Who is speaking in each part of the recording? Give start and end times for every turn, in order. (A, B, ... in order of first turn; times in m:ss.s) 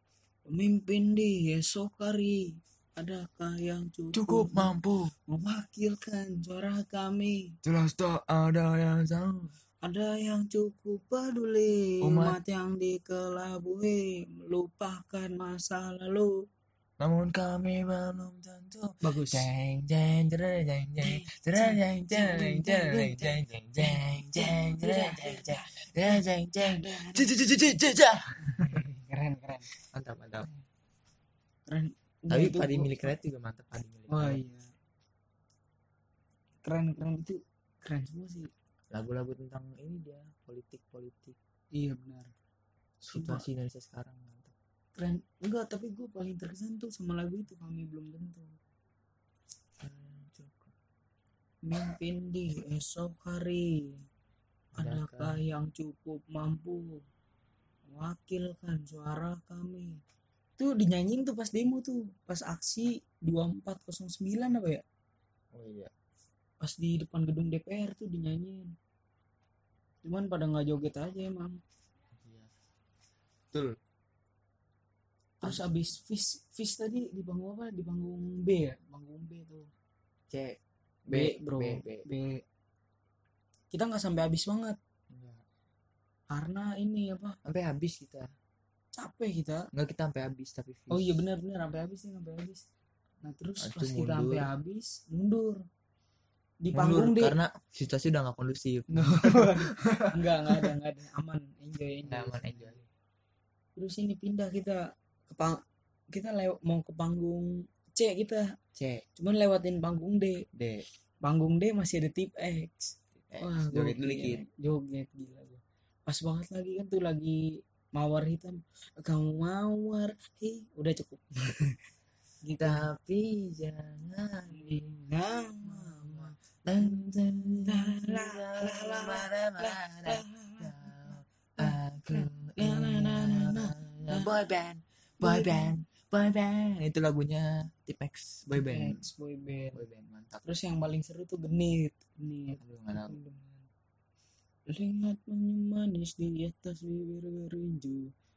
0:00.5-0:04.7 A
0:04.1-0:05.1 B
0:05.3-0:07.6 A
0:07.6-0:09.5 B
0:09.8-0:16.4 A
0:12.0-0:12.4 B
0:17.0-0:28.8 B
0:19.0-0:19.5 A
0:21.0-0:27.4 A
0:28.4-0:29.7 A
0:29.8-0:30.5 B
0:31.7-0:33.1 A
0:32.3-0:34.4 B
0:34.1-0:34.7 A
0:36.6-0:38.5 A
0:38.9-0:41.4 B
0:41.7-0:42.3 A
0:43.0-0:44.5 B
0:43.1-0:43.4 A
0:45.0-0:48.6 A
0:49.8-0:50.7 B
0:51.6-0:54.0 A
0:54.7-0:55.4 B
0:54.8-0:57.0 A
0:57.9-1:00.0 A
1:00.6-1:04.8 A
1:05.5-1:05.9 B
1:06.6-1:08.7 A
1:10.0-1:11.6 A
1:12.2-1:12.5 B
1:15.4-1:19.7 A
1:15.4-1:15.7 B
1:20.3-1:22.0 B
1:21.1-1:22.4 A
1:23.7-1:24.8 A
1:25.1-1:25.4 B
1:26.3-1:27.4 A
1:27.4-1:28.3 B
1:28.9-1:29.7 A
1:29.7-1:31.2 B
1:30.9-1:32.6 A
1:33.2-1:35.6 A
1:33.6-1:34.5 B
1:36.6-1:37.4 A
1:36.7-1:40.7 B
1:38.9-1:42.8 A
1:42.1-1:42.8 B
1:43.8-1:48.5 A
1:48.7-1:49.0 B
1:49.2-1:50.4 A
1:50.5-1:50.8 B
1:51.2-2:01.8 A
1:53.3-1:54.4 B
2:02.4-2:02.9 A
2:02.6-2:04.9 B
2:04.5-2:07.1 A
2:05.6-2:19.1 B
2:07.6-2:14.3 A
2:15.2-2:15.7 A
2:18.5-2:19.8 A
2:19.7-2:20.5 B
2:20.4-2:23.7 A
2:22.6-2:23.2 B
2:24.7-2:28.1 A